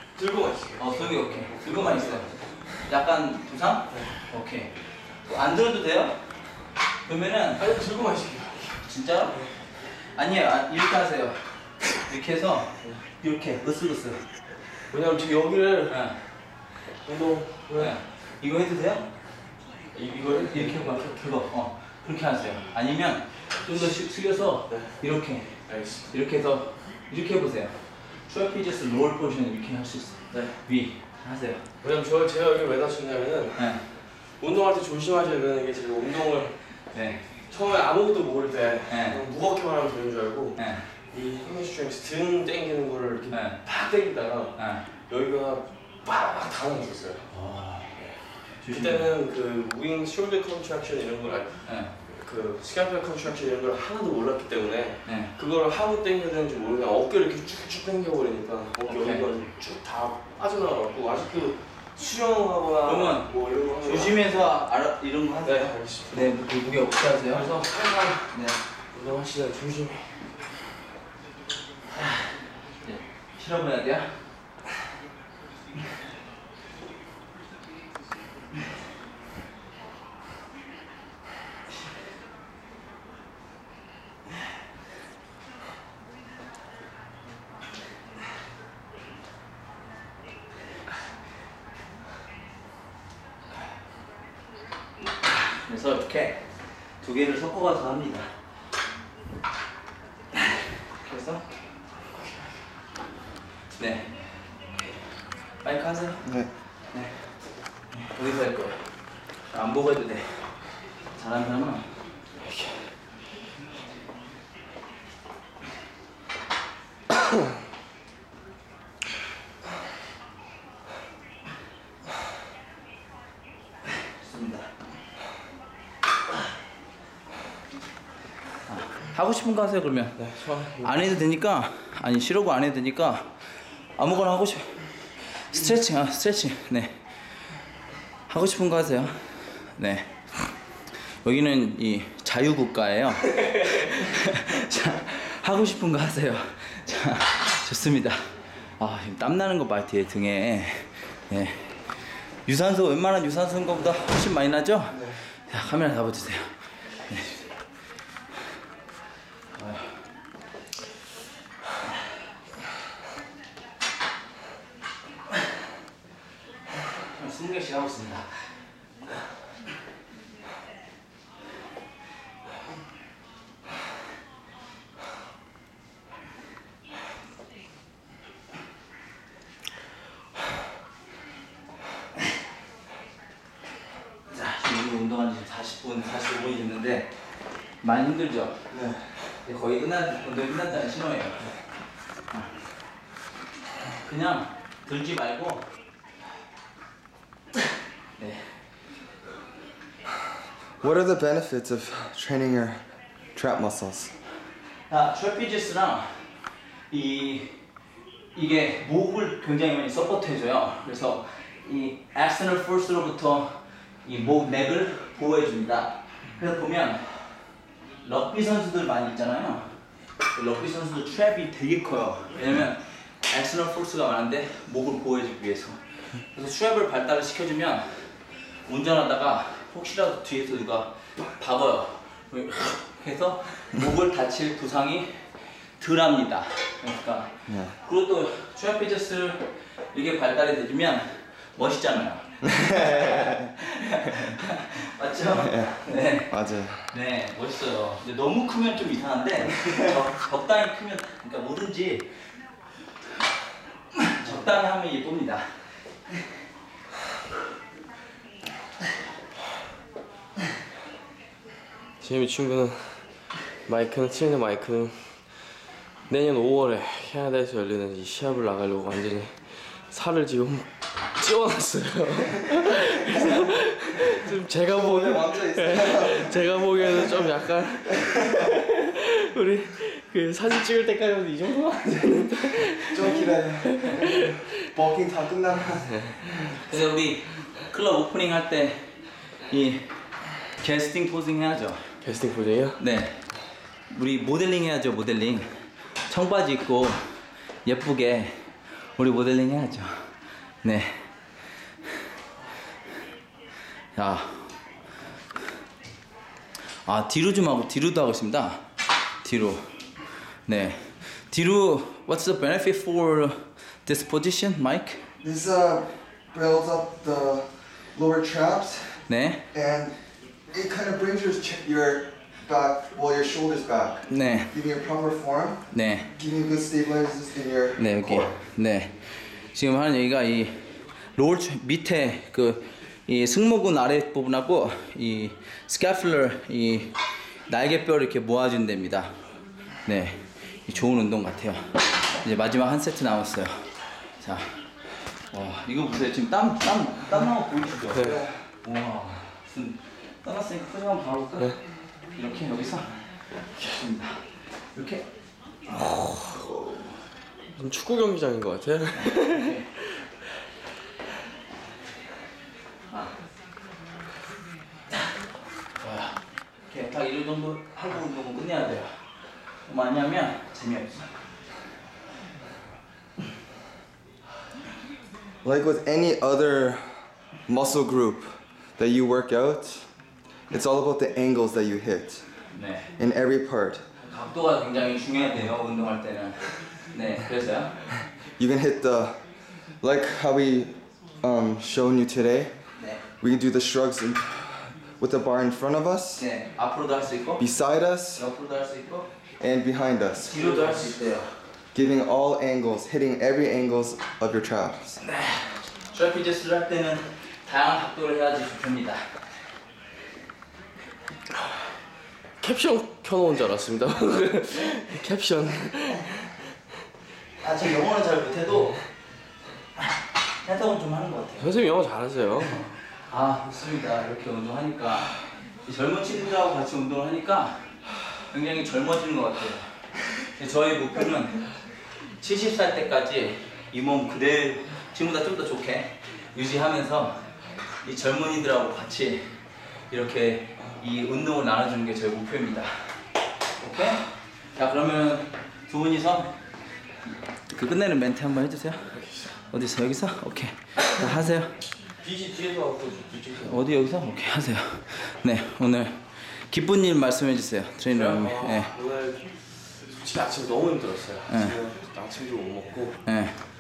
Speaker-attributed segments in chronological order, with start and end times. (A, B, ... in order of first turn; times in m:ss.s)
0:00.2-0:02.4 A
0:00.8-0:04.7 B
0:05.2-0:06.2 B
0:07.1-0:07.7 B
0:07.6-0:09.5 A
0:08.8-0:11.4 B
0:12.0-0:14.2 B
0:14.9-0:16.0 A
0:15.9-0:16.2 B
0:17.0-0:17.9 A
0:17.8-0:19.1 B
0:19.9-0:21.0 A
0:20.5-0:25.6 B
0:24.7-0:25.0 A
0:25.7-0:26.1 A
0:26.1-0:31.6 B
0:31.8-0:33.8 A
0:34.4-0:36.6 A
0:36.9-0:37.2 B
0:37.5-0:40.6 A
0:38.9-0:39.2 B
0:40.6-0:40.9 B
0:41.1-0:44.6 A
0:43.3-0:43.6 B
0:44.6-0:44.8 B
0:45.1-0:47.3 A
0:47.3-0:48.0 B
0:48.6-0:49.1 B
0:48.7-1:04.5 A
0:51.7-0:51.9 B
0:55.1-0:55.3 B
0:58.9-0:59.2 B
1:02.9-1:03.3 B
1:03.8-1:07.5 B
1:05.4-1:06.1 A
1:07.3-1:08.3 A
1:08.3-1:08.6 B
1:08.9-1:10.2 A
1:12.8-1:14.1 B
1:35.6-1:36.4 B
1:37.0-1:38.3 B
1:41.0-1:41.4 B
1:43.8-1:44.4 B
1:45.6-1:46.2 B
1:46.9-1:47.3 B
1:47.9-1:48.8 B
1:49.5-1:50.5 B
1:51.2-1:51.8 B
2:04.2-2:04.7 B
2:08.7-2:13.3 B
2:10.2-2:10.9 A
2:14.0-2:16.9 B
2:18.3-2:20.1 B
2:21.2-2:31.8 B
2:32.4-2:36.5 B
2:34.9-2:35.2 C
2:37.1-2:37.5 B
2:39.6-2:39.9 B
2:47.1-2:48.4 B
3:04.3-3:07.1 B
3:07.8-3:08.6 B
3:08.7-3:09.0 C
3:09.4-3:11.5 B
3:14.0-3:15.7 B
3:18.2-3:18.5 B
3:20.8-3:22.8 C
3:23.4-3:24.1 C
3:24.9-3:26.2 B
3:26.9-3:27.6 B
3:28.4-3:37.0 B
3:38.0-3:39.7 B
3:40.3-3:45.8 B
3:46.3-3:48.1 B
3:48.7-3:55.3 B
3:55.8-4:06.3 B
3:57.5-3:57.8 C
4:02.5-4:03.4 C
4:05.4-4:06.9 C
4:06.9-4:12.1 B
4:14.1-4:15.5 B
4:22.0-4:23.0 A
4:23.7-4:25.1 A
4:26.1-4:44.5 A
4:34.6-4:37.3 C
4:38.1-4:38.4 C
4:42.8-4:46.1 C
4:46.6-4:48.9 B
4:49.5-4:49.9 B
4:50.4-4:51.9 B
4:52.0-4:52.8 A
4:52.8-4:53.2 B
4:53.9-4:55.5 B
4:56.1-4:57.0 B
4:57.6-5:00.1 B
5:00.6-5:01.0 B
5:04.0-5:04.6 B
5:06.8-5:08.6 B
5:09.2-5:09.6 B
5:10.5-5:15.0 B
5:15.2-5:19.0 C
5:19.1-5:19.4 B
5:19.5-5:20.0 C
5:20.5-5:25.6 C
5:24.1-5:24.5 B
5:25.7-5:26.1 B
5:26.2-5:28.4 C
5:27.8-5:30.6 B
5:31.2-5:36.9 B
5:37.5-5:39.1 B
5:39.9-5:43.7 B
5:44.2-5:44.5 B
5:45.3-5:51.6 B
5:48.0-5:48.2 A
5:48.0-5:48.3 C
5:52.2-5:54.2 B
5:54.7-5:55.0 B
5:55.8-5:56.8 B
5:57.6-5:59.6 A
5:59.0-5:59.7 B
6:05.8-6:06.2 B
6:06.7-6:09.0 B
6:09.7-6:11.1 B
6:15.4-6:16.9 C
6:17.5-6:19.9 C
6:20.5-6:22.2 C
6:22.5-6:22.9 B
6:23.0-6:23.8 C
6:24.0-6:27.8 B
6:28.4-6:29.2 C
6:29.8-6:32.5 C
6:33.2-6:36.2 C
6:36.2-6:37.4 B
6:37.4-6:38.2 C
6:38.2-6:39.1 B
6:39.4-6:40.4 C
6:40.2-6:41.3 B
6:40.4-6:40.7 A
6:41.7-6:45.0 C
6:45.9-6:49.0 B
6:52.4-6:56.2 A
6:57.4-6:58.8 B
7:00.4-7:01.6 B
7:01.4-7:02.6 A
7:03.1-7:05.1 B
7:05.7-7:07.6 B
7:08.3-7:11.5 B
7:12.2-7:17.2 B
7:17.8-7:19.3 B
7:19.9-7:22.9 B
7:23.6-7:26.3 B
7:27.5-7:29.0 B
7:28.9-7:29.3 A
7:29.5-7:31.5 B
7:32.0-7:33.7 A
7:33.4-7:38.7 B
7:37.9-7:39.4 A
7:40.0-7:43.0 A
7:41.3-7:41.6 B
7:43.1-7:43.4 B